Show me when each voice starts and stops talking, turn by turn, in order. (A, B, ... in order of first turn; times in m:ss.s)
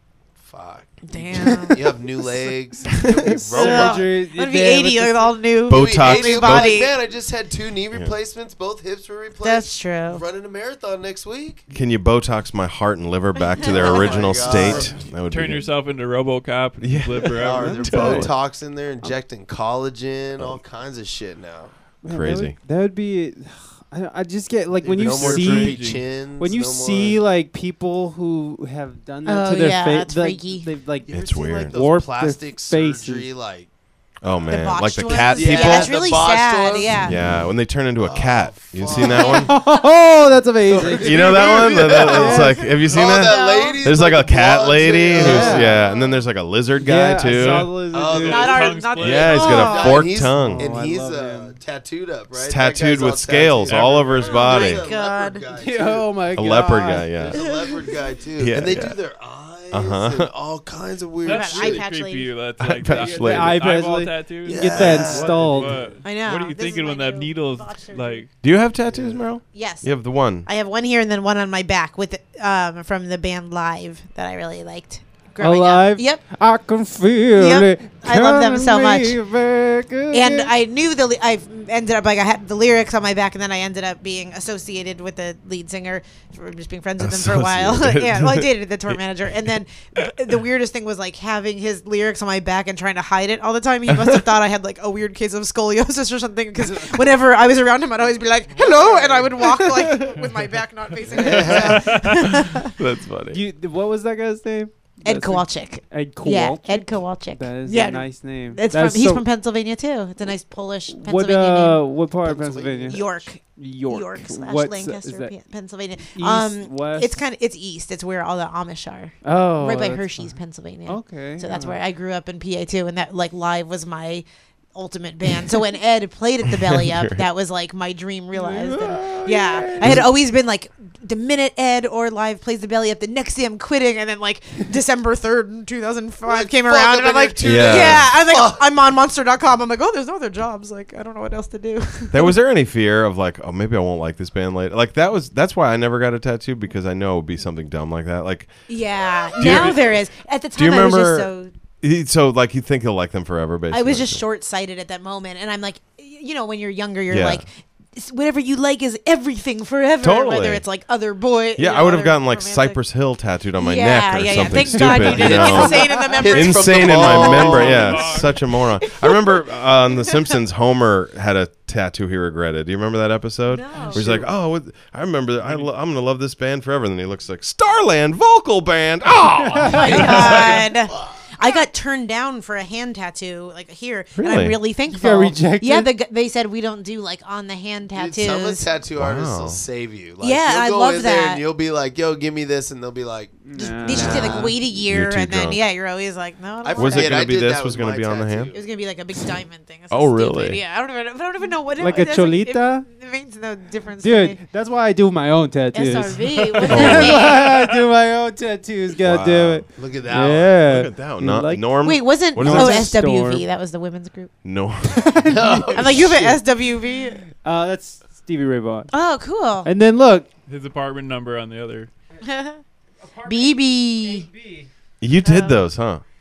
0:00.4-0:04.1 A
0:01.1-0:02.0 B
0:01.4-0:01.7 C
0:03.0-0:03.2 D
0:03.0-0:05.3 C
0:03.5-0:06.9 B
0:05.7-0:06.8 D
0:05.7-0:11.6 A
0:09.4-0:10.2 B
0:11.7-0:15.7 D
0:13.6-0:14.7 B
0:13.6-0:15.0 A
0:15.3-0:18.3 E
0:16.8-0:18.3 D
0:17.3-0:21.7 A
0:22.0-0:25.8 C
0:22.0-0:22.6 D
0:24.8-0:27.2 A
0:25.0-0:26.0 E
0:26.4-0:31.1 C
0:29.2-0:30.7 B
0:31.1-0:33.7 A
0:31.1-0:31.8 D
0:31.7-0:33.3 C
0:34.2-0:35.9 D
0:34.5-0:37.2 B
0:35.3-0:37.2 A
0:37.0-0:39.5 D
0:38.0-0:39.4 A
0:38.9-0:39.8 B
0:39.2-0:42.4 C
0:40.7-0:45.9 A
0:41.0-0:47.7 D
0:41.2-0:43.9 B
0:45.2-0:45.8 C
0:45.2-0:46.2 B
0:46.8-0:48.5 C
0:47.3-0:49.6 E
0:47.9-0:56.1 A
0:48.3-0:50.1 B
0:49.0-0:50.7 D
0:50.3-0:51.5 C
0:52.3-0:54.8 D
0:53.6-0:54.3 E
0:54.2-0:55.4 B
0:55.5-0:57.4 C
0:56.3-0:57.4 D
0:57.2-1:01.9 A
0:57.4-0:57.8 B
0:58.4-0:59.0 D
0:59.7-1:00.3 D
1:01.2-1:08.3 E
1:01.2-1:02.3 B
1:02.6-1:03.6 D
1:02.9-1:05.8 C
1:04.4-1:05.9 A
1:06.0-1:08.2 B
1:08.4-1:10.5 D
1:08.9-1:09.2 A
1:09.5-1:16.2 B
1:15.4-1:20.5 C
1:17.3-1:19.2 B
1:20.1-1:42.7 B
1:27.0-1:29.0 D
1:33.9-1:34.2 D
1:38.6-1:38.9 E
1:41.1-1:41.9 A
1:41.6-1:42.1 E
1:42.2-1:43.4 D
1:43.3-1:49.2 C
1:45.0-1:51.8 B
1:50.9-1:53.0 C
1:52.2-1:53.2 A
1:52.9-2:22.3 B
1:53.6-1:55.3 C
1:56.1-1:57.2 C
1:59.2-2:00.3 C
2:00.9-2:01.8 C
2:06.7-2:07.2 D
2:08.3-2:09.9 C
2:09.8-2:10.1 D
2:16.2-2:18.6 A
2:17.4-2:18.2 D
2:22.1-2:28.5 D
2:28.7-2:31.5 B
2:29.4-2:29.9 D
2:29.4-2:29.9 E
2:30.6-2:34.2 D
2:33.7-2:42.8 B
2:37.1-2:37.4 D
2:40.0-2:40.6 D
2:41.6-3:00.3 D
2:43.6-2:47.6 B
2:44.8-2:46.1 C
2:46.0-2:48.2 A
2:47.3-2:48.4 E
2:48.8-2:50.3 B
2:53.5-2:54.1 B
2:55.4-2:55.7 E
2:59.4-3:00.2 C
2:59.6-3:08.6 B
3:00.0-3:01.6 A
3:04.2-3:04.6 D
3:04.9-3:05.9 C
3:07.9-3:13.3 A
3:08.9-3:09.6 D
3:10.2-3:11.4 B
3:13.4-3:14.6 C
3:13.6-3:17.3 B
3:13.9-3:14.5 A
3:14.0-3:15.6 D
3:16.6-3:18.6 A
3:16.8-3:18.5 D
3:18.5-3:24.4 B
3:19.9-3:20.6 D
3:21.8-3:22.8 C
3:24.0-3:31.6 C
3:25.7-3:27.5 B
3:26.6-3:27.8 E
3:26.7-3:27.2 D
3:29.0-3:29.6 D
3:29.7-3:30.6 A
3:30.6-3:32.9 D
3:31.8-3:34.3 B
3:32.4-3:33.4 C
3:34.4-3:35.2 D
3:34.8-3:37.2 B
3:35.2-3:36.4 C
3:35.2-3:36.3 A
3:37.4-3:38.9 C
3:38.9-3:39.7 B
3:39.6-3:40.3 C
3:40.5-3:41.9 E
3:42.2-3:42.6 B
3:43.0-3:44.7 C
3:43.2-3:44.3 B
3:45.0-3:46.0 D
3:45.2-3:45.6 B